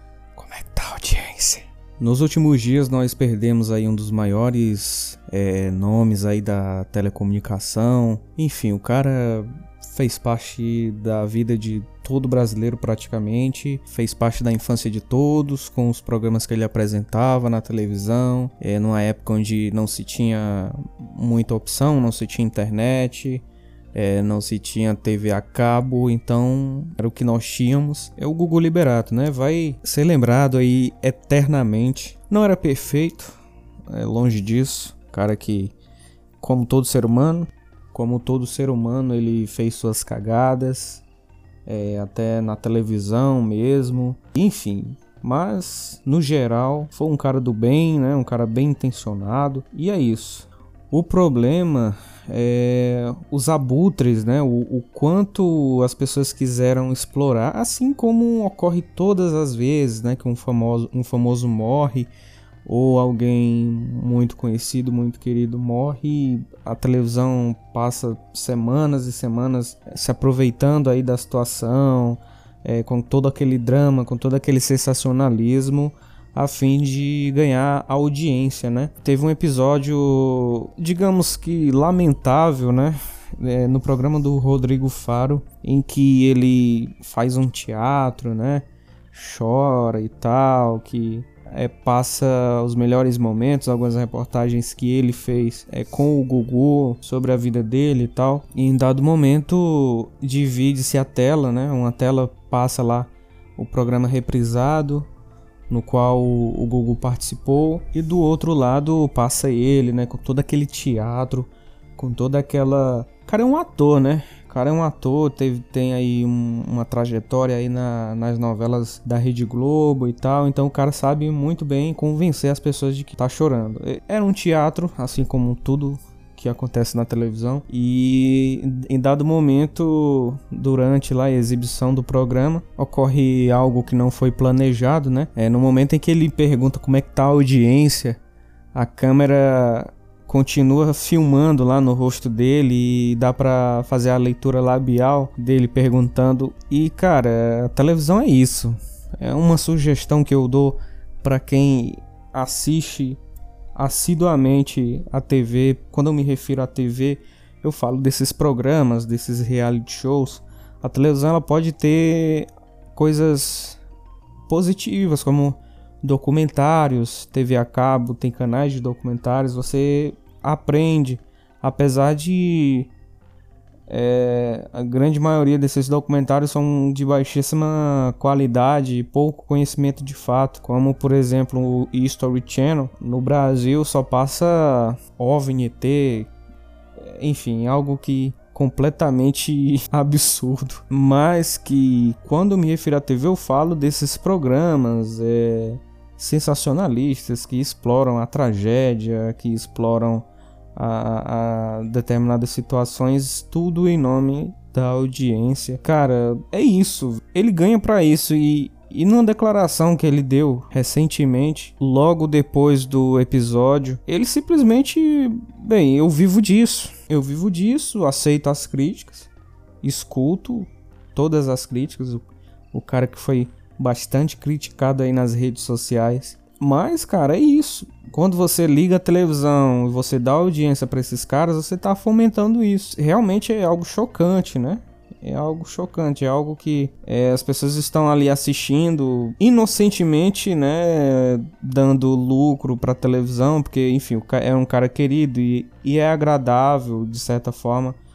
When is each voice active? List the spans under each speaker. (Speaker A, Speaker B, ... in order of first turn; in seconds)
Speaker A: 0.3-33.3, 33.9-35.7, 36.4-41.0, 41.7-62.1, 62.6-105.1, 105.7-138.2, 138.7-153.2, 153.8-163.8, 164.5-172.9, 173.9-186.3, 187.0-219.3, 219.8-248.0